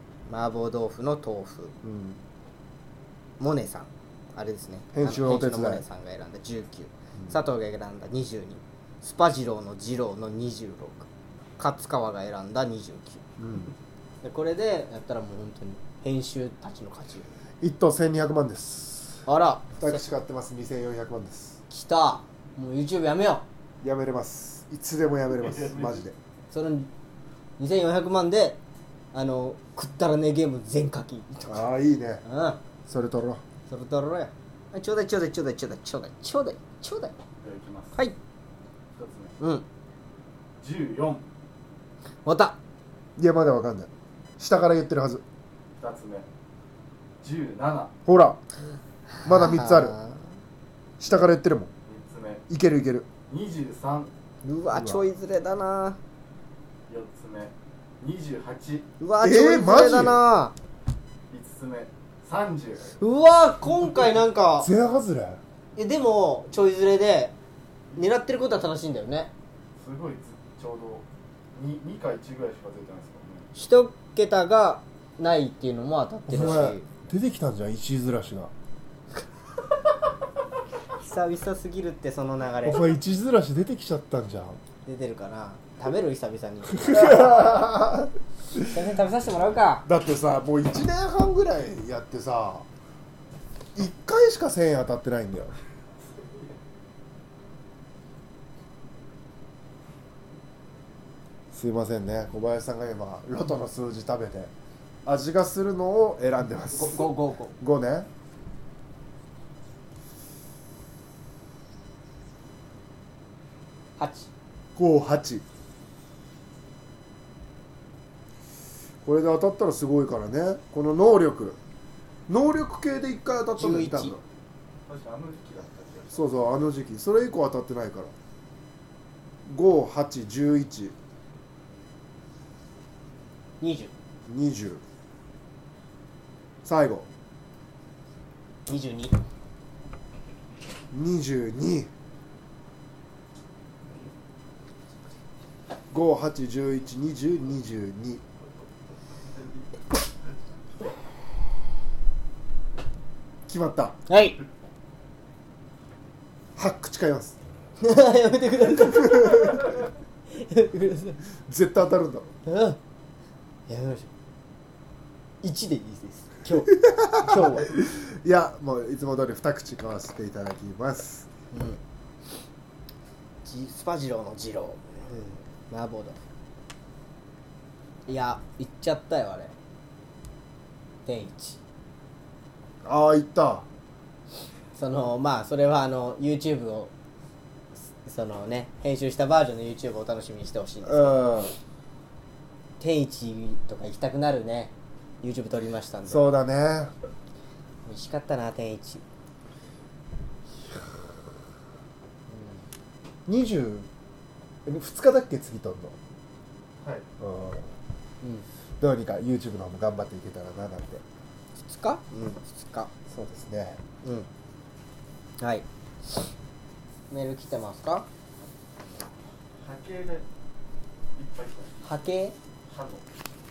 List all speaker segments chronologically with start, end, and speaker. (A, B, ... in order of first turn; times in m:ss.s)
0:00.3-0:01.8 A
0:01.8-0:02.2 B
0:03.4-0:11.1 A
0:04.9-0:05.8 B
0:11.6-0:13.2 A
0:13.4-0:13.7 B
0:14.2-0:17.3 A
0:17.6-0:19.2 B
0:19.3-0:20.0 A
0:19.8-0:21.6 B
0:21.7-0:23.4 A
0:23.8-0:26.1 B
0:25.6-0:25.9 C
0:26.5-0:26.9 A
0:27.6-0:28.6 A
0:29.1-0:31.7 A
0:31.5-0:32.2 B
0:32.2-0:32.6 A
0:32.8-0:33.4 B
0:33.7-0:37.2 A
0:37.4-0:38.0 C
0:38.9-0:39.4 C
0:39.4-0:39.6 A
0:40.6-0:41.2 C
0:42.2-0:42.6 A
0:43.2-0:45.2 B
0:45.8-0:46.3 C
0:47.2-0:47.9 C
0:48.0-0:48.4 B
0:49.1-0:50.2 A
0:49.2-0:50.0 B
0:51.0-0:51.7 B
0:51.9-0:52.4 C
0:52.5-0:53.1 B
0:53.3-0:54.1 C
0:54.4-0:56.0 A
0:54.7-0:55.0 B
0:56.9-0:58.9 C
0:59.0-1:00.5 A
0:59.2-1:00.2 B
1:01.3-1:02.9 C
1:03.0-1:04.7 A
1:04.6-1:05.4 B
1:05.8-1:07.3 A
1:07.9-1:09.3 A
1:09.8-1:13.5 C
1:13.5-1:16.8 A
1:16.3-1:18.5 B
1:20.9-1:22.8 A
1:22.6-1:24.6 B
1:24.8-1:27.7 A
1:26.7-1:28.8 B
1:28.6-1:29.9 A
1:29.8-1:32.6 B
1:33.7-1:35.5 B
1:41.5-1:44.5 B
1:45.0-1:48.1 B
1:46.7-1:47.6 A
1:54.0-1:54.3 A
1:54.8-1:55.4 B
1:59.0-2:01.6 B
2:02.3-2:04.2 B
2:03.6-2:04.2 A
2:04.8-2:06.4 C
2:06.1-2:08.1 B
2:09.4-2:10.9 B
2:13.6-2:13.9 A
2:14.3-2:14.8 B
2:16.6-2:17.0 B
2:18.7-2:19.2 A
2:20.9-2:21.9 B
2:25.9-2:28.2 B
2:33.5-2:34.0 B
2:34.1-2:34.4 A
2:36.6-2:37.4 B
2:37.8-2:39.7 A
2:39.0-2:39.6 B
2:40.3-2:41.2 A
2:41.4-2:42.3 B
2:42.4-2:42.8 A
2:43.7-2:44.1 A
2:45.4-2:47.7 A
2:46.7-2:51.3 B
2:51.5-2:51.8 A
2:53.4-2:56.2 A
2:58.1-2:59.5 A
3:01.0-3:01.6 A
3:02.8-3:03.6 B
3:04.7-3:06.9 A
3:07.9-3:11.4 A
3:10.8-3:11.5 B
3:12.8-3:16.2 A
3:16.1-3:16.9 B
3:17.8-3:19.0 A
3:22.3-3:22.6 A
3:23.3-3:23.9 B
3:24.6-3:25.9 B
3:26.8-3:27.1 C
3:27.2-3:27.7 B
3:28.8-3:31.0 B
3:31.6-3:32.9 A
3:33.1-3:33.8 B
3:34.0-3:34.3 A
3:35.4-3:35.6 A
3:37.1-3:38.0 A
3:39.6-3:40.2 C
3:41.1-3:41.9 C
3:41.8-3:42.3 A
3:42.7-3:43.0 C